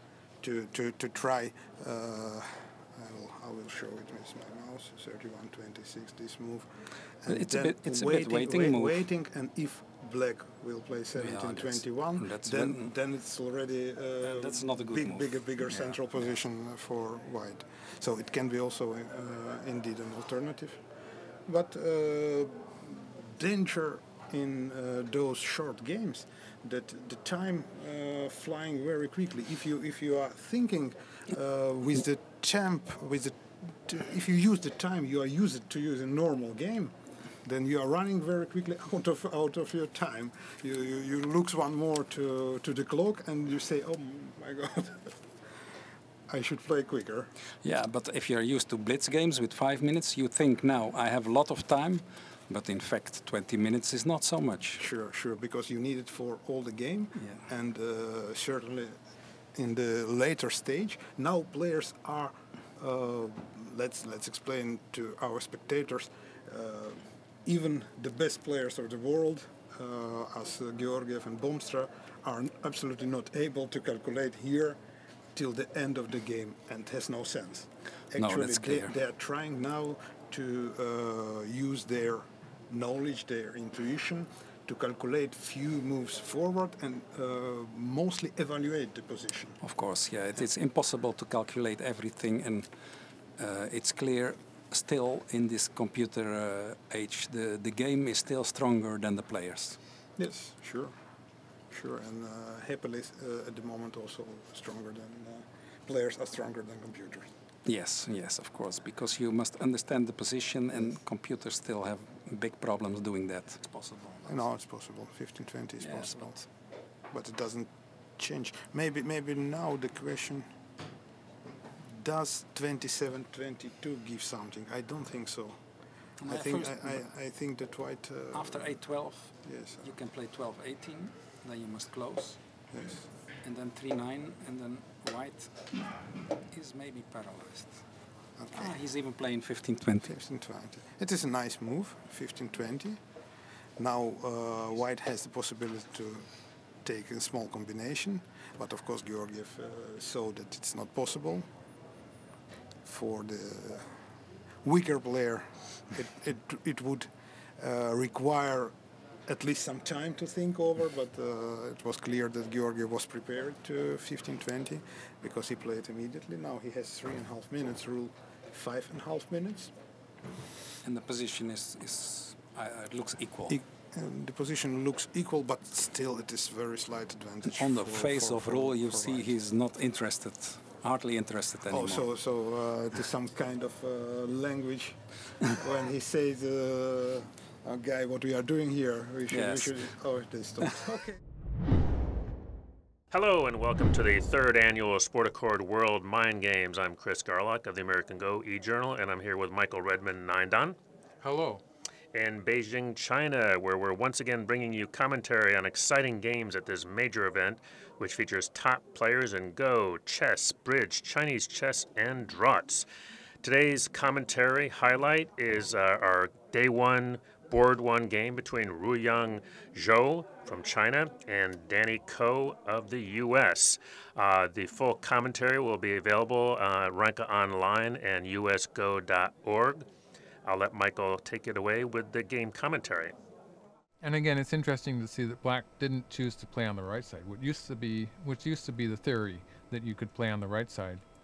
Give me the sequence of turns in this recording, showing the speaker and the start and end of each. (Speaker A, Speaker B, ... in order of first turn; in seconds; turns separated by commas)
Speaker A: 0.4-20.8, Speaker B: 7.3-9.0, Speaker B: 11.2-12.9, Speaker B: 14.2-16.0, Speaker A: 21.5-45.2, Speaker A: 46.3-47.3, Speaker B: 47.6-54.8, Speaker A: 54.8-59.0, Speaker B: 57.2-57.4, Speaker A: 59.5-74.8, Speaker A: 75.3-89.6, Speaker B: 78.2-78.9, Speaker B: 89.6-92.7, Speaker B: 93.4-99.8, Speaker A: 100.2-100.9, Speaker A: 101.7-107.3, Speaker B: 107.7-114.5, Speaker A: 114.3-116.5, Speaker B: 115.8-116.4, Speaker A: 117.1-120.5, Speaker A: 121.8-125.6, Speaker B: 126.2-127.0, Speaker A: 126.3-128.8, Speaker B: 128.3-132.4, Speaker A: 129.4-129.9, Speaker A: 132.7-133.1, Speaker B: 133.4-135.7, Speaker B: 136.5-137.8, Speaker A: 138.4-138.7, Speaker B: 138.5-140.1, Speaker A: 140.0-143.0, Speaker A: 143.8-146.3, Speaker A: 146.8-151.5, Speaker A: 152.8-154.0, Speaker A: 154.6-158.8, Speaker A: 159.3-169.7, Speaker B: 170.8-173.6, Speaker A: 173.5-179.3, Speaker B: 177.4-182.1, Speaker A: 181.7-191.0, Speaker B: 189.3-189.8, Speaker C: 193.1-200.8, Speaker D: 201.2-201.6, Speaker C: 202.1-212.9, Speaker C: 213.4-229.9, Speaker C: 230.4-233.2, Speaker D: 234.0-241.0